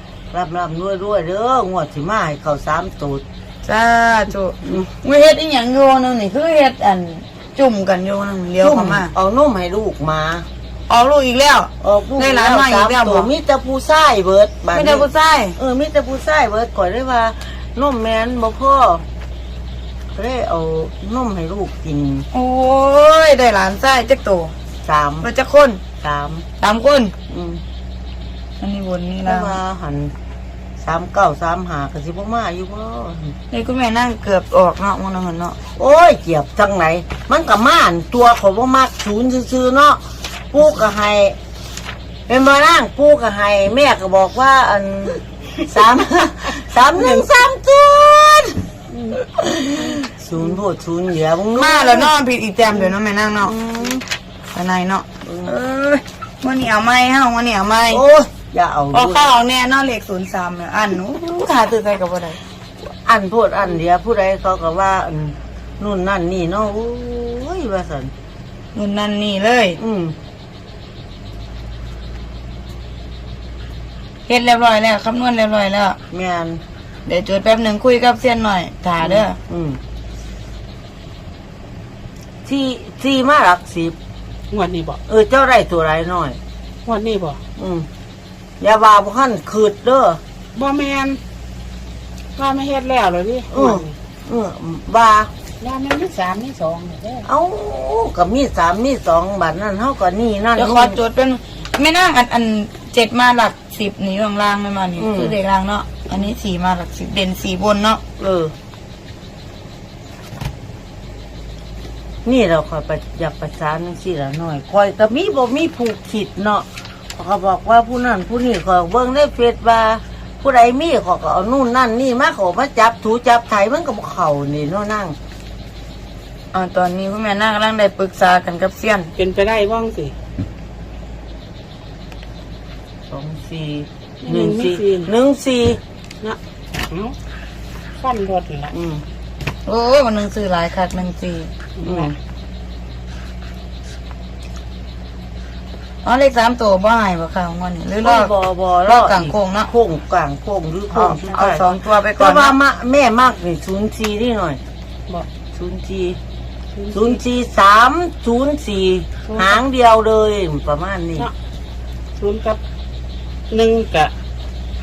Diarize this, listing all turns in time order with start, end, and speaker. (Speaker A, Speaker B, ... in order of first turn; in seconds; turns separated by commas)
Speaker A: 0.3-3.2, Speaker B: 3.6-9.1, Speaker A: 8.6-10.5, Speaker B: 10.9-13.3, Speaker A: 11.8-19.0, Speaker B: 14.7-15.6, Speaker A: 20.1-22.3, Speaker B: 22.3-24.5, Speaker A: 24.8-25.3, Speaker B: 25.2-25.8, Speaker A: 26.0-26.5, Speaker B: 26.6-27.1, Speaker A: 27.3-27.6, Speaker B: 28.6-29.6, Speaker A: 29.2-30.1, Speaker A: 30.8-33.4, Speaker B: 33.5-35.6, Speaker A: 35.8-41.4, Speaker A: 42.3-48.7, Speaker C: 48.9-49.2, Speaker A: 49.4-52.1, Speaker B: 51.6-53.5, Speaker A: 52.7-54.0, Speaker B: 54.5-58.0, Speaker A: 55.2-55.5, Speaker A: 57.9-59.3, Speaker B: 58.9-62.4, Speaker A: 62.8-68.1, Speaker B: 68.8-69.8, Speaker A: 69.8-70.2, Speaker B: 74.3-76.0, Speaker A: 76.1-76.6, Speaker B: 77.1-79.4, Speaker A: 79.0-79.8, Speaker A: 82.5-84.0, Speaker C: 84.5-85.0, Speaker A: 85.1-86.4, Speaker C: 86.8-87.4, Speaker A: 87.6-87.9, Speaker A: 88.6-90.2, Speaker C: 90.5-91.2, Speaker C: 92.4-93.9, Speaker A: 93.5-95.3, Speaker C: 95.6-97.3, Speaker A: 97.3-101.0, Speaker B: 100.6-108.0, Speaker A: 105.0-105.4, Speaker A: 108.2-108.5, Speaker A: 112.2-125.2, Speaker B: 126.5-129.1, Speaker C: 129.2-130.2, Speaker A: 133.1-135.8, Speaker C: 134.2-135.1, Speaker C: 136.2-137.2, Speaker C: 138.0-138.7, Speaker A: 138.7-139.0, Speaker B: 139.7-141.5, Speaker C: 141.8-142.1, Speaker A: 141.8-142.1, Speaker B: 146.0-148.3, Speaker A: 148.0-154.6, Speaker B: 148.9-149.7, Speaker B: 150.9-152.6, Speaker A: 155.5-156.2, Speaker C: 156.8-157.2, Speaker A: 156.9-161.3, Speaker C: 159.3-159.6, Speaker C: 162.2-162.6, Speaker C: 163.5-164.1